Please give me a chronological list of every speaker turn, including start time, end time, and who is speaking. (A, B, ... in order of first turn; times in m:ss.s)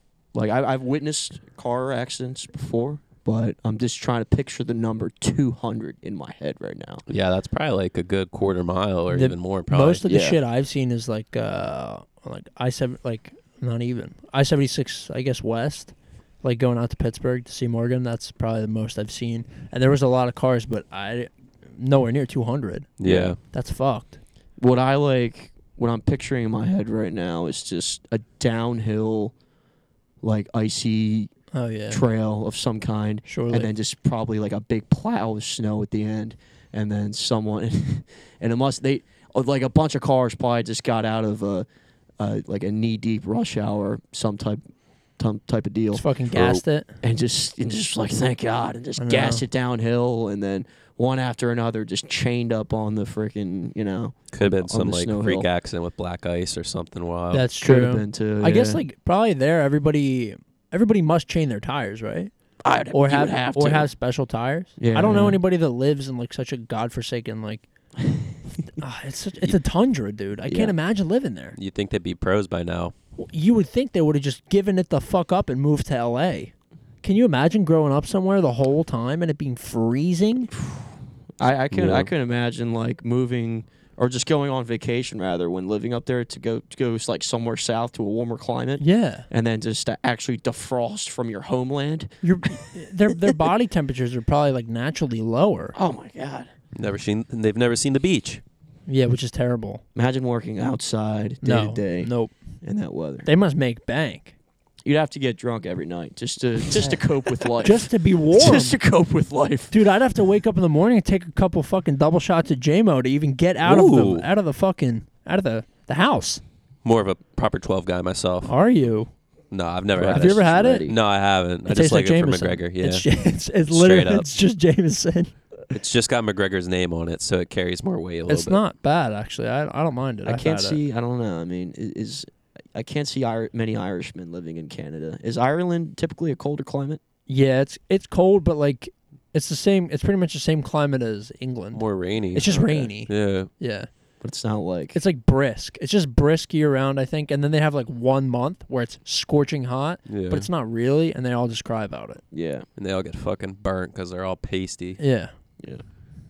0:00.3-0:07.0 A
0:07.1-0:10.0 B
0:09.1-0:24.2 C
0:10.0-0:10.4 A
0:23.0-0:23.4 B
0:23.0-0:23.3 A
0:24.6-0:29.3 A
0:30.2-0:31.3 A
0:31.5-0:32.0 C
0:31.9-0:41.6 A
0:33.2-0:33.7 C
0:42.2-0:44.6 A
0:45.2-0:55.5 A
0:45.9-0:46.9 C
0:49.0-0:49.4 C
0:54.3-0:57.4 B
0:57.3-1:02.3 C
0:57.6-0:58.8 A
1:02.6-1:03.9 A
1:02.9-1:07.6 C
1:04.8-1:05.4 A
1:08.8-1:11.6 C
1:10.4-1:10.7 A
1:11.5-1:12.9 B
1:13.2-1:16.5 C
1:17.0-1:20.5 C
1:21.4-1:33.4 A
1:21.7-1:22.1 B
1:28.8-1:29.3 C
1:32.2-1:35.7 C
1:35.7-1:36.5 A
1:36.7-1:38.4 B
1:38.9-1:39.8 C
1:39.9-1:42.1 A
1:41.4-1:42.3 C
1:42.6-1:43.3 A
1:43.2-1:44.3 C
1:44.8-1:49.8 A
1:47.6-1:48.8 C
1:49.7-1:56.4 C
1:53.6-1:54.3 B
1:56.8-1:58.5 B
1:58.4-1:59.1 C
1:59.5-2:03.0 B
2:00.0-2:01.0 A
2:00.0-2:00.9 C
2:01.7-2:05.3 C
2:03.7-2:04.3 B
2:05.7-2:08.6 B
2:08.3-2:10.8 C
2:10.2-2:17.0 A
2:17.3-2:23.9 C
2:21.7-2:22.5 B
2:22.4-2:22.9 A
2:23.0-2:23.5 B
2:24.2-2:25.0 A
2:24.9-2:32.2 C
2:30.1-2:30.5 B
2:32.3-2:32.6 A
2:32.8-2:35.0 B
2:35.0-2:35.3 C